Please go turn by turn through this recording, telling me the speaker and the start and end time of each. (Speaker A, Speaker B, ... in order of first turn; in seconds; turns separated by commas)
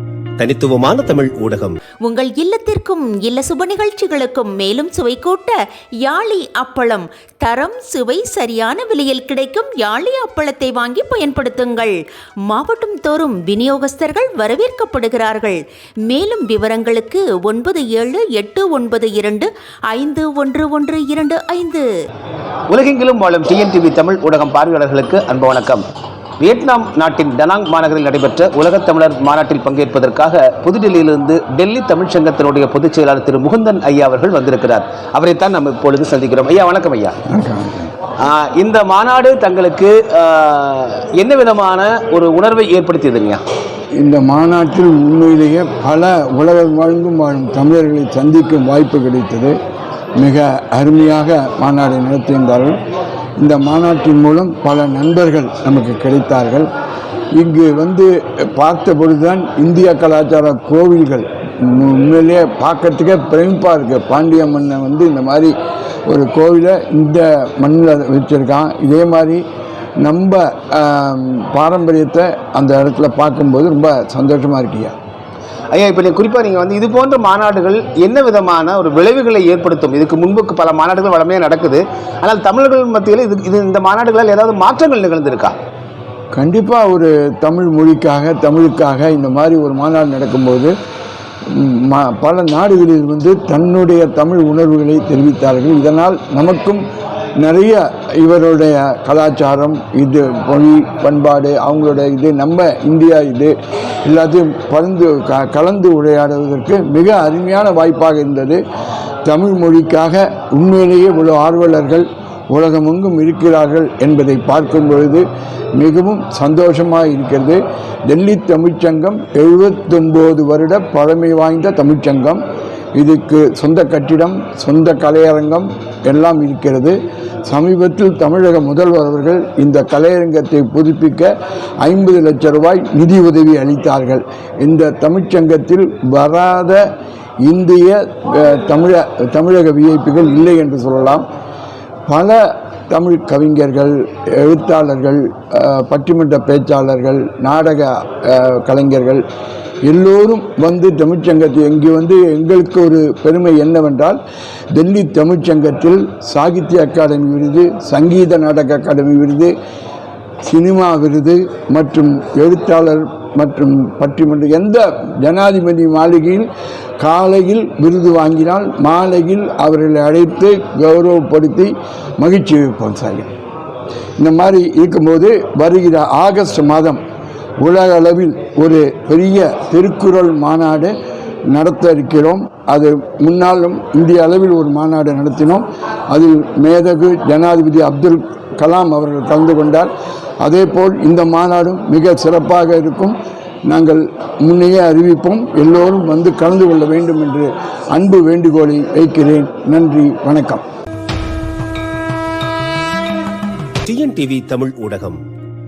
Speaker A: 0.4-1.8, Speaker B: 2.0-12.0, Speaker B: 12.5-21.9, Speaker C: 22.7-25.8, Speaker C: 26.4-37.1, Speaker D: 37.3-37.9, Speaker C: 38.2-43.4, Speaker D: 44.0-49.5, Speaker D: 50.2-52.8, Speaker D: 53.4-56.7, Speaker D: 57.4-65.5, Speaker D: 66.1-69.4, Speaker D: 70.0-74.9, Speaker C: 75.7-85.5, Speaker D: 86.3-90.7, Speaker D: 91.5-96.8, Speaker D: 97.4-103.5, Speaker D: 104.1-108.6, Speaker D: 109.2-115.2, Speaker D: 115.8-122.4, Speaker D: 123.0-131.3, Speaker D: 131.8-136.8, Speaker D: 137.4-141.2, Speaker D: 142.1-142.4, Speaker D: 142.9-149.2, Speaker D: 149.8-154.2, Speaker D: 154.7-159.5, Speaker D: 160.4-166.5, Speaker D: 167.0-173.3, Speaker D: 174.2-177.0, Speaker D: 177.6-180.9, Speaker D: 181.5-189.9, Speaker D: 190.4-193.2, Speaker D: 193.7-200.6, Speaker A: 203.8-205.2